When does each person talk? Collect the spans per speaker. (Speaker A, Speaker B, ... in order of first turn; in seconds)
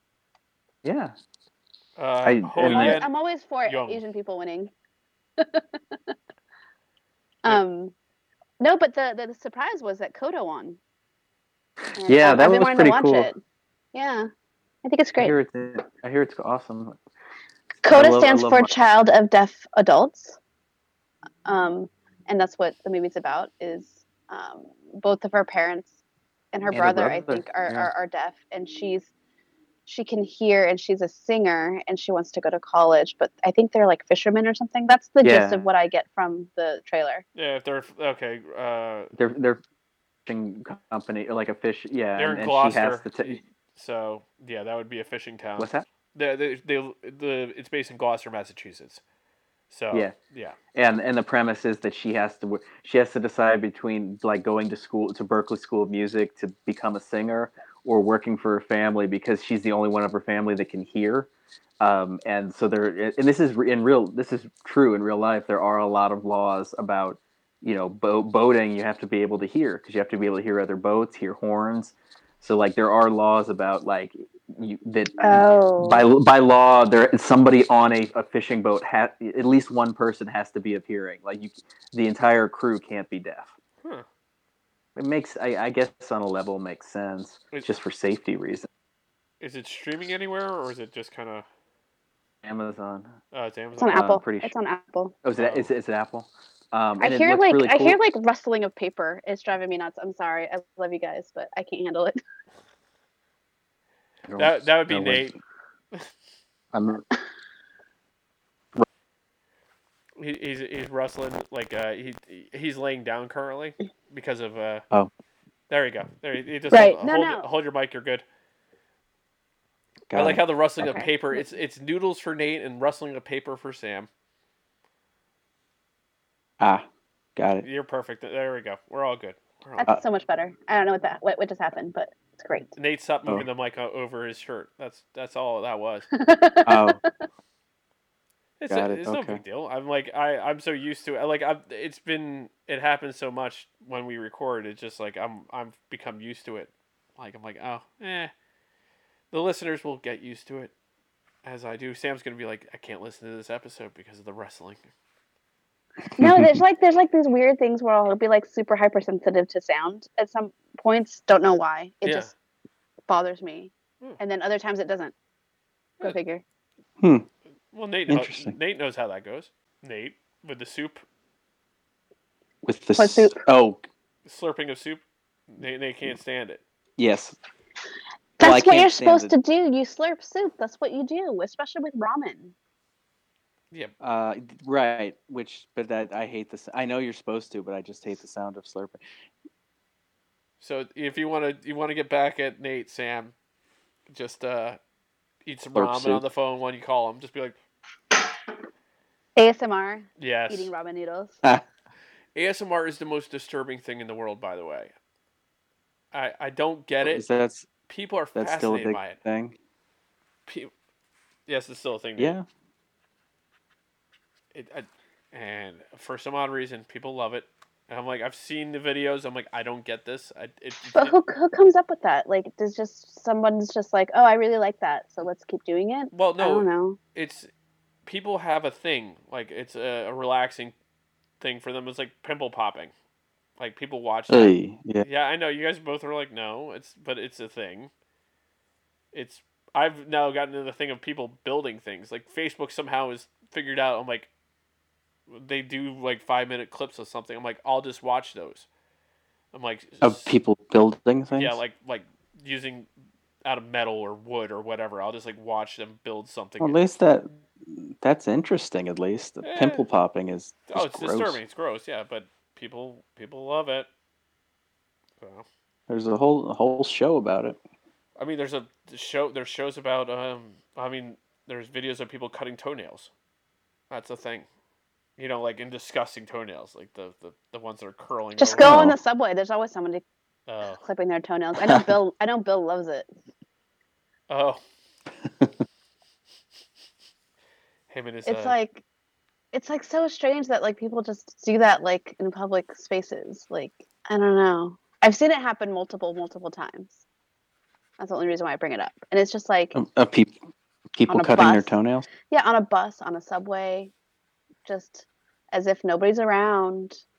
Speaker A: 0.8-1.1, 2.2-3.0, 12.0-13.3, 15.2-17.0, 17.9-18.7, 26.7-27.9, 35.2-35.6, 39.1-39.6, 40.2-43.4, 45.6-45.9, 50.7-61.3, 61.8-83.5, 85.0-88.7, 92.4-93.1, 93.8-94.5, 95.2-98.0, 104.3-105.3, 106.7-107.0, 120.1-120.4, 126.6-127.7, 136.7-137.0, 138.7-139.4, 156.2-156.6, 167.0-167.3, 168.1-168.5, 172.6-173.8, 177.0-177.4, 178.4-179.3, 184.0-189.0, 195.7-196.2, 207.0-207.7, 208.3-209.6, 212.2-212.4, 234.3-235.1, 250.0-251.6, 256.6-261.4, 265.9-267.6, 278.6-278.9, 285.3-285.5, 299.7-300.4, 300.9-302.1
Speaker B: 2.0-3.1, 3.6-4.0, 37.3-39.1, 42.1-49.0, 49.7-50.6, 89.4-91.5, 93.3-94.0, 95.4-95.7, 104.4-105.3, 110.2-114.8, 115.7-118.2, 120.1-124.1, 127.6-129.9, 132.8-136.1, 138.6-148.3, 149.3-150.7, 151.4-154.8, 162.0-162.3, 167.7-171.0, 174.2-176.6, 190.6-193.3, 194.1-194.8, 195.4-197.6, 200.2-200.7, 202.3-204.9, 206.1-207.2, 207.9-209.2, 211.5-212.3, 214.5-221.1, 226.1-227.5, 228.1-230.7, 231.4-232.9, 233.6-237.9, 239.1-244.3, 245.3-248.7, 249.5-250.3, 251.3-252.9, 253.4-256.9, 259.4-259.9, 260.7-263.9, 265.2-265.4, 268.2-273.1, 273.9-274.5, 275.2-278.8, 280.5-280.8, 284.3-284.6, 287.9-288.6
Speaker C: 2.6-4.7, 5.4-6.0, 7.4-7.9, 8.6-10.8, 12.0-13.4, 13.9-14.3, 14.8-15.3, 17.8-20.4, 21.4-26.0, 26.5-29.1, 29.9-37.2, 75.2-76.1, 93.8-95.2, 97.0-102.2, 116.7-117.5, 120.8-121.1, 129.8-132.7, 136.1-137.1, 156.2-162.3, 163.1-165.1, 166.0-166.4, 173.0-173.4, 178.4-182.5, 199.4-201.4, 220.9-227.0, 278.4-280.0, 280.8-283.1, 288.2-288.8, 289.5-297.0, 298.0-299.8, 301.1-301.8, 302.3-303.9, 304.6-307.0